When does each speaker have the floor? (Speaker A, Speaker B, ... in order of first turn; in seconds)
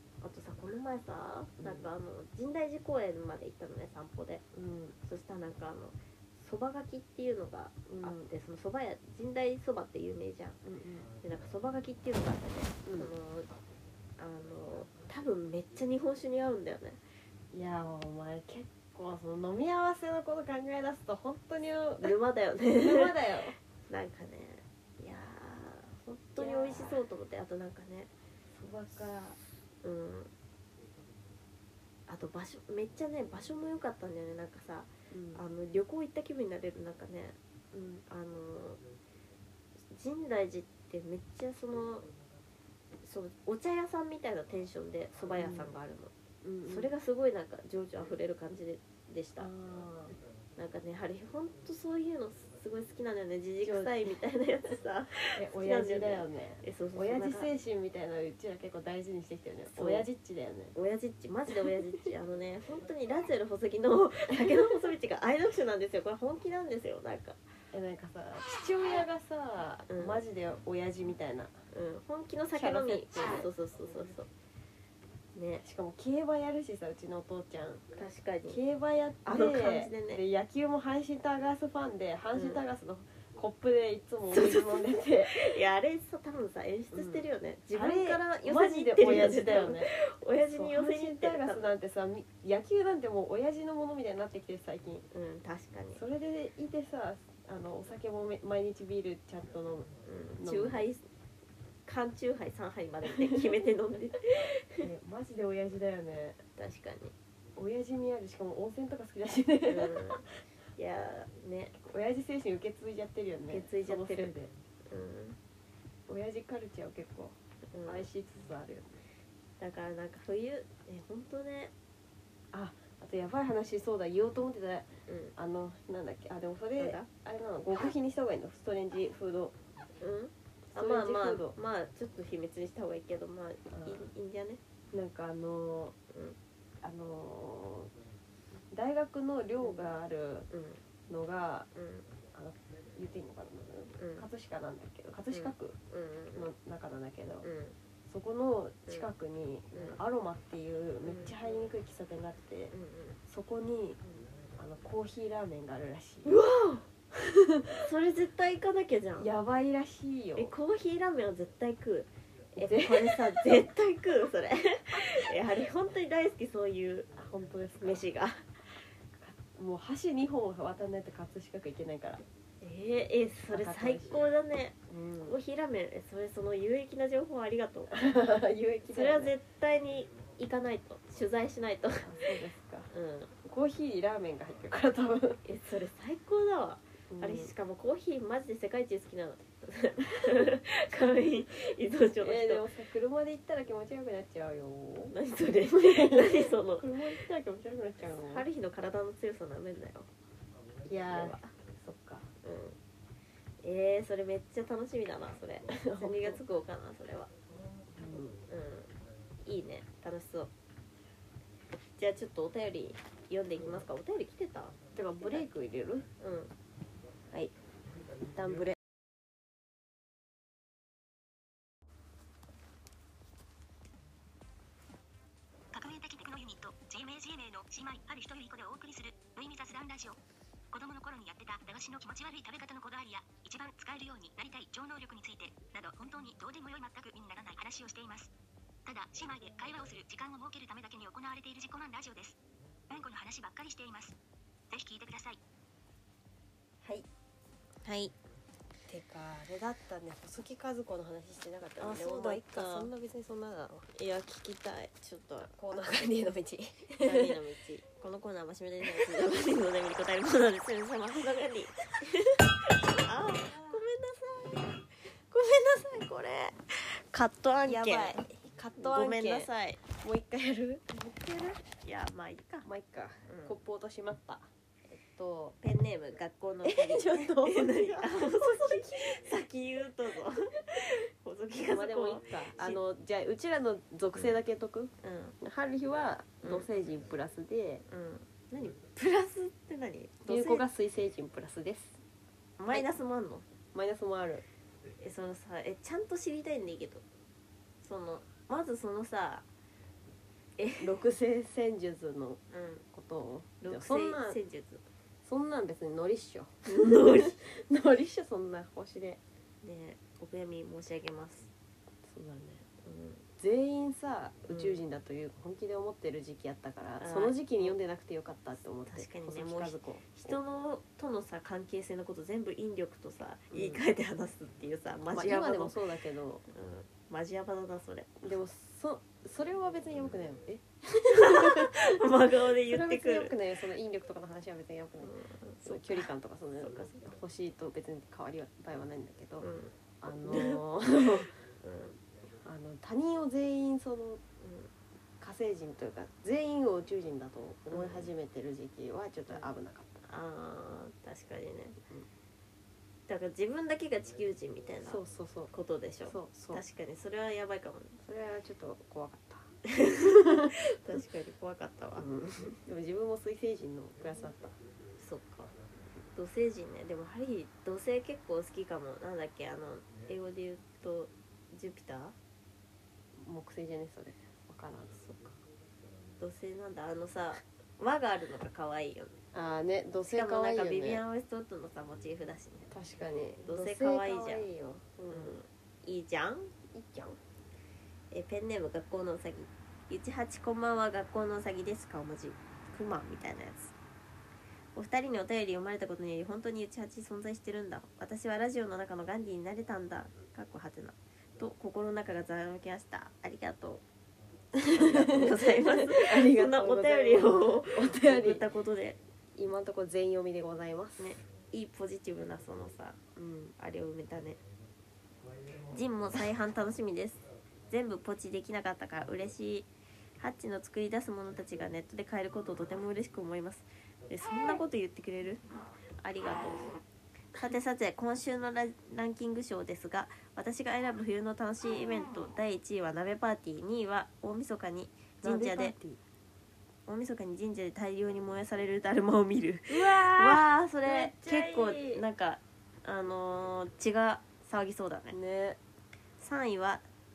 Speaker A: 0.2-4.5, 5.0-10.6, 11.2-13.6, 14.2-17.0, 22.0-23.2, 23.9-28.1, 29.8-30.3, 32.1-37.4, 38.1-38.8, 39.9-42.1, 43.0-46.1, 46.7-49.5, 50.6-57.5, 59.8-60.0, 60.7-67.4, 69.9-70.2, 71.7-74.3, 75.3-75.6, 78.0-78.6, 79.3-80.2, 82.3-82.6, 84.3-91.7, 95.1-96.0, 100.0-101.0, 101.9-104.9, 106.6-107.1, 109.6-110.2, 110.8-111.7, 113.5-114.3, 114.9-115.4, 117.7-118.0, 119.6-121.7, 125.1-125.3, 126.8-127.1, 130.0-134.6, 136.1-136.4, 140.5-140.8, 141.8-142.1, 144.0-144.3, 145.3-146.5, 147.4-147.7, 151.0-151.3, 152.7-153.2, 156.2-156.8, 157.8-159.3, 160.4-167.1, 167.8-168.4, 172.6-178.0, 178.9-182.2, 182.9-183.3, 185.4-192.7, 195.1-196.9, 198.1-200.1, 201.1-201.5, 202.4-202.8, 203.6-207.3, 208.5-208.9, 209.4-210.5, 212.0-215.5, 216.2-216.5, 247.8-248.1, 251.8-252.9, 253.9-256.1, 257.0-269.8, 271.7-272.7, 273.3-273.6, 275.6-282.8, 285.0-285.4, 286.4-286.7, 287.9-290.7, 292.6-293.4, 295.0-297.0, 297.8-299.4, 300.6-300.9, 302.5-302.8, 303.6-304.8, 306.7-307.4, 309.6-311.5, 312.8-313.2, 314.5-314.8, 317.0-317.8, 318.9-325.8, 326.5-328.2, 331.1-333.4, 335.0-337.0, 339.4-339.7, 340.3-340.7, 341.6-342.0, 344.4-344.7, 347.7-348.1, 350.1-351.8, 353.1-355.0, 355.5-358.0, 359.7-362.1, 365.0-365.5, 366.1-372.1, 376.2-379.2, 380.1-382.7, 383.4-384.5, 385.1-386.6, 388.1-393.7, 394.7-403.8, 404.7-409.0, 411.0-413.0, 413.6-414.4, 415.7-419.7, 420.2-426.8, 427.4-435.7, 436.9-445.2, 446.2-446.9
Speaker B: 1.6-1.9, 4.5-5.0, 7.9-8.3, 10.6-11.1, 12.8-13.1, 17.5-22.2, 22.7-23.6, 26.4-27.0, 28.5-29.4, 35.1-35.4, 37.7-38.0, 45.3-45.7, 46.4-46.9, 49.4-50.2, 53.6-54.2, 55.4-60.7, 64.3-64.7, 67.7-71.5, 72.5-73.5, 75.6-77.8, 78.5-85.5, 86.9-89.9, 90.5-95.0, 95.9-100.8, 104.8-106.4, 107.5-110.2, 111.8-114.5, 116.1-119.0, 122.5-129.6, 130.7-131.5, 133.7-134.1, 134.9-135.9, 136.8-137.9, 138.7-140.5, 141.1-141.7, 142.3-145.8, 146.3-147.5, 148.1-152.7, 153.3-154.0, 154.6-156.3, 157.1-157.8, 159.2-160.5, 162.6-163.6, 167.1-168.1, 169.1-172.2, 173.5-174.3, 174.9-175.4, 177.9-179.3, 182.0-182.9, 183.4-185.4, 187.1-187.5, 192.2-195.1, 195.7-198.4, 200.9-202.3, 205.7-206.4, 207.9-208.4, 214.9-216.1, 218.3-218.8, 248.9-253.9, 255.5-257.4, 263.4-263.8, 267.6-271.6, 272.6-275.6, 276.6-279.2, 281.7-287.8, 290.3-292.0, 293.7-294.4, 300.8-302.4, 302.9-304.4, 305.2-309.2, 312.0-312.6, 313.4-320.4, 323.5-323.8, 325.1-326.4, 328.2-339.5, 340.0-341.3, 342.4-344.2, 345.2-350.1, 354.8-355.5, 356.1-356.6, 358.0-359.5, 360.0-360.5, 362.0-364.6, 373.2-375.3, 379.3-381.0, 382.7-385.4, 386.7-387.2, 404.6-408.4, 409.4-411.1, 413.2-413.6, 435.2-436.0, 439.7-442.0, 445.1-445.6
Speaker C: 225.7-230.2, 230.7-238.3, 238.9-242.4, 242.9-244.2, 244.7-245.4